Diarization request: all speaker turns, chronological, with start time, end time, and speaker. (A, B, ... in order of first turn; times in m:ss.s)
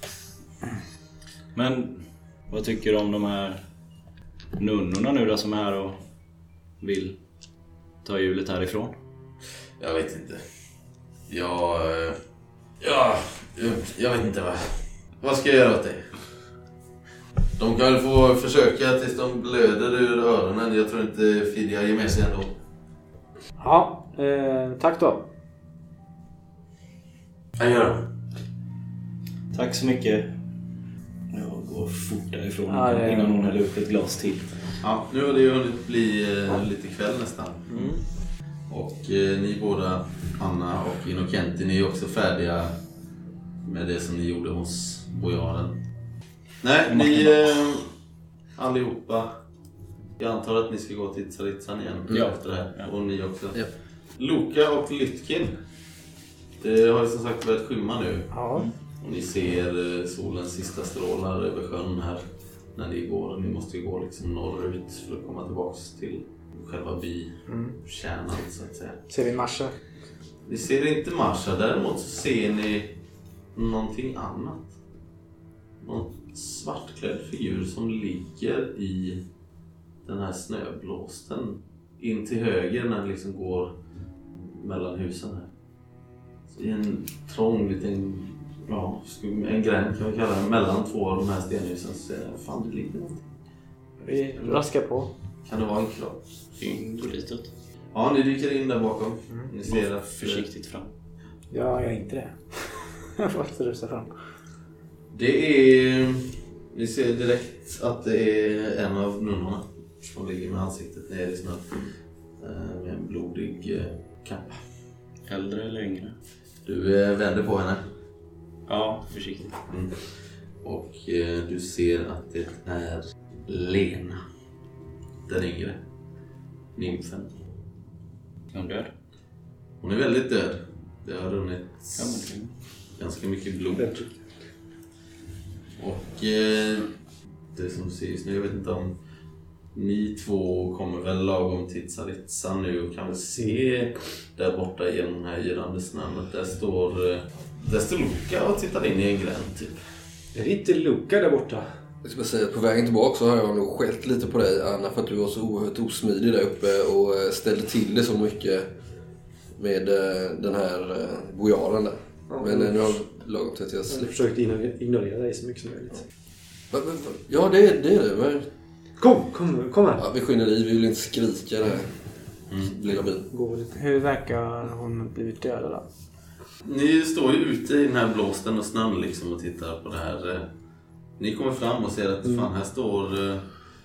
0:01.6-0:03.6 A
0:04.6-0:06.0 A
0:06.8-0:07.2 A
0:08.0-0:08.9 A
0:09.8-0:10.4 B
0:11.3-0:12.2 B
0:12.8-0:16.0 B
0:17.6-0:22.6 B
0:23.6-0:25.3 C
0:27.6-0:28.1 B
0:29.5-0:30.3 A
0:31.3-0:34.5 A
0:32.7-0:33.4 C
0:34.8-0:37.9 B
0:37.7-0:38.0 C
0:38.7-0:42.8 B
0:43.6-0:45.8 B
0:46.6-0:47.9 B
0:46.9-0:47.6 A
0:48.6-0:49.4 B
0:50.2-0:53.6 B
0:52.1-0:52.9 A
0:54.2-0:55.6 B
0:56.6-0:58.4 B
0:58.3-0:58.7 C
0:59.0-1:02.2 B
1:02.8-1:09.0 B
1:07.5-1:07.8 C
1:09.1-1:09.8 C
1:10.4-1:13.0 B
1:13.5-1:14.7 B
1:15.8-1:19.2 B
1:20.0-1:23.8 B
1:24.3-1:25.5 B
1:26.5-1:33.2 B
1:34.0-1:35.1 C
1:35.4-1:36.8 B
1:36.6-1:37.5 A
1:37.9-1:40.5 B
1:39.7-1:40.9 A
1:41.5-1:44.1 C
1:45.1-1:51.7 B
1:52.4-1:54.6 B
1:55.3-1:56.2 A
1:56.6-1:57.8 B
1:58.7-1:59.6 A
1:59.7-2:00.0 B
2:00.6-2:04.2 B
2:05.3-2:05.8 B
2:06.8-2:07.3 B
2:08.5-2:08.9 A
2:09.8-2:12.3 B
2:12.0-2:12.5 A
2:13.0-2:14.0 B
2:13.8-2:14.1 D
2:15.8-2:16.9 B
2:17.5-2:19.0 B
2:19.7-2:29.8 B
2:30.3-2:31.7 D
2:32.0-2:38.7 E
2:39.6-2:44.1 E
2:42.3-2:42.8 D
2:43.9-2:46.0 D
2:46.7-2:48.5 E
2:49.0-2:50.0 D
2:50.0-2:51.9 E
2:52.5-2:53.0 B
2:52.6-2:53.3 E
2:53.3-2:53.8 D
2:53.7-2:55.9 C
2:56.6-3:00.5 B
3:01.2-3:03.5 B